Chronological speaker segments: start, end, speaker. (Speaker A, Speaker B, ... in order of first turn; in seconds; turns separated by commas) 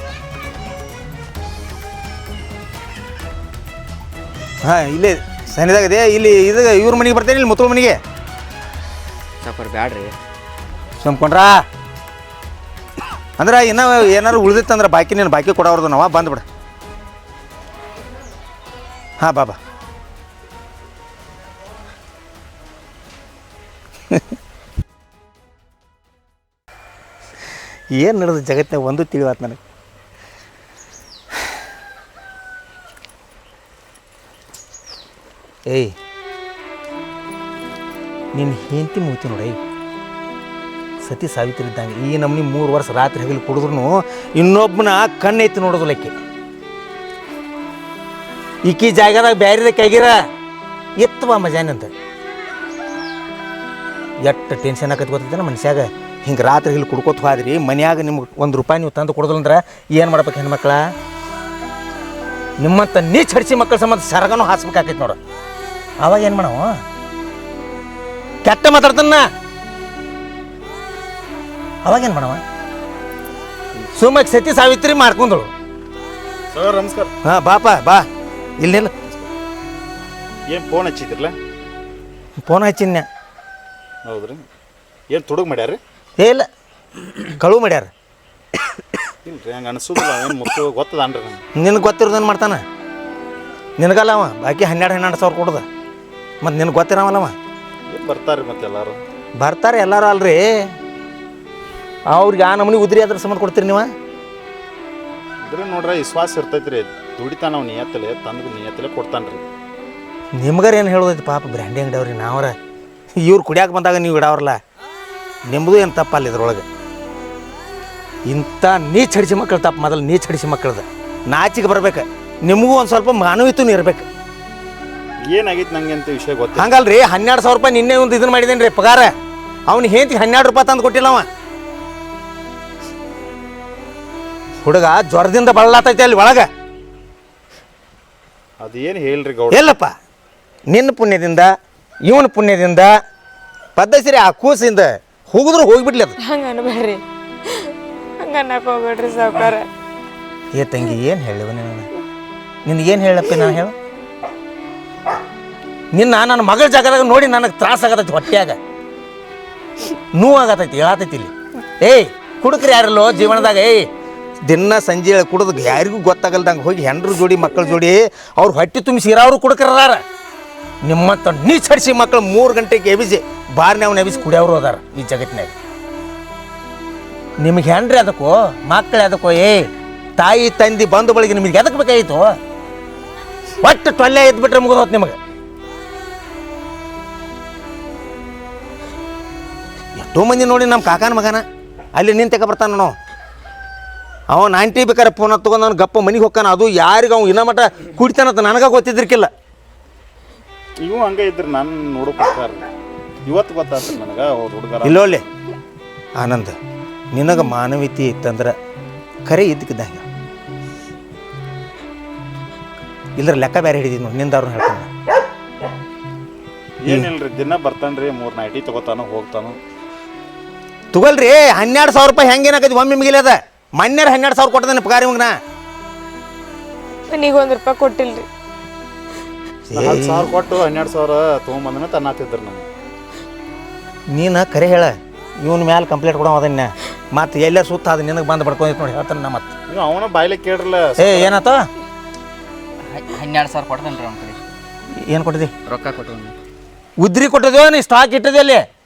Speaker A: 4.6-8.0, Speaker B: 9.4-10.1, Speaker A: 11.0-11.6, Speaker A: 13.4-16.4, Speaker A: 19.2-19.6, Speaker A: 27.9-29.6, Speaker A: 35.7-35.9, Speaker A: 38.3-39.6, Speaker A: 41.0-46.1, Speaker A: 48.6-50.2, Speaker A: 51.0-51.9, Speaker A: 54.2-60.9, Speaker A: 62.6-65.2, Speaker A: 66.0-66.8, Speaker A: 68.4-69.3, Speaker A: 71.8-72.4, Speaker A: 73.8-75.5, Speaker C: 76.5-77.1, Speaker A: 77.2-78.0, Speaker A: 78.6-78.9, Speaker C: 80.5-81.3, Speaker A: 82.4-83.1, Speaker C: 84.0-84.4, Speaker C: 85.1-85.8, Speaker A: 86.2-86.5, Speaker A: 87.3-87.9, Speaker C: 89.2-91.4, Speaker A: 91.5-92.6, Speaker A: 93.8-95.6, Speaker A: 96.4-97.3, Speaker C: 97.9-99.0, Speaker A: 99.4-100.7, Speaker A: 102.1-103.9, Speaker C: 105.4-109.5, Speaker A: 110.3-112.5, Speaker A: 113.2-114.6, Speaker A: 115.5-116.7, Speaker A: 118.3-124.1, Speaker C: 125.2-126.7, Speaker A: 126.6-129.1, Speaker A: 129.7-131.3, Speaker A: 134.6-136.5, Speaker C: 138.6-139.7, Speaker A: 139.5-139.9, Speaker A: 140.7-141.5, Speaker A: 142.0-142.9, Speaker A: 143.8-146.2, Speaker D: 146.2-149.7, Speaker A: 150.5-151.9, Speaker A: 152.6-153.7, Speaker A: 155.9-158.6, Speaker A: 160.1-163.9, Speaker A: 164.4-170.0, Speaker A: 170.8-175.5, Speaker A: 177.4-182.3, Speaker A: 183.6-185.2, Speaker A: 189.9-191.4, Speaker A: 191.9-192.9, Speaker A: 194.3-199.3, Speaker C: 200.8-202.7, Speaker C: 203.2-205.2, Speaker A: 204.8-205.2, Speaker A: 206.2-206.6, Speaker A: 207.1-208.5, Speaker A: 209.2-210.1, Speaker A: 213.2-214.9, Speaker C: 216.8-219.6, Speaker A: 220.9-225.4, Speaker D: 227.1-228.3, Speaker A: 229.7-230.3, Speaker C: 229.8-232.7, Speaker A: 234.1-239.5, Speaker C: 239.7-241.4, Speaker A: 241.0-241.7, Speaker B: 242.9-244.4, Speaker A: 245.0-245.5, Speaker B: 245.7-246.3, Speaker A: 247.0-248.6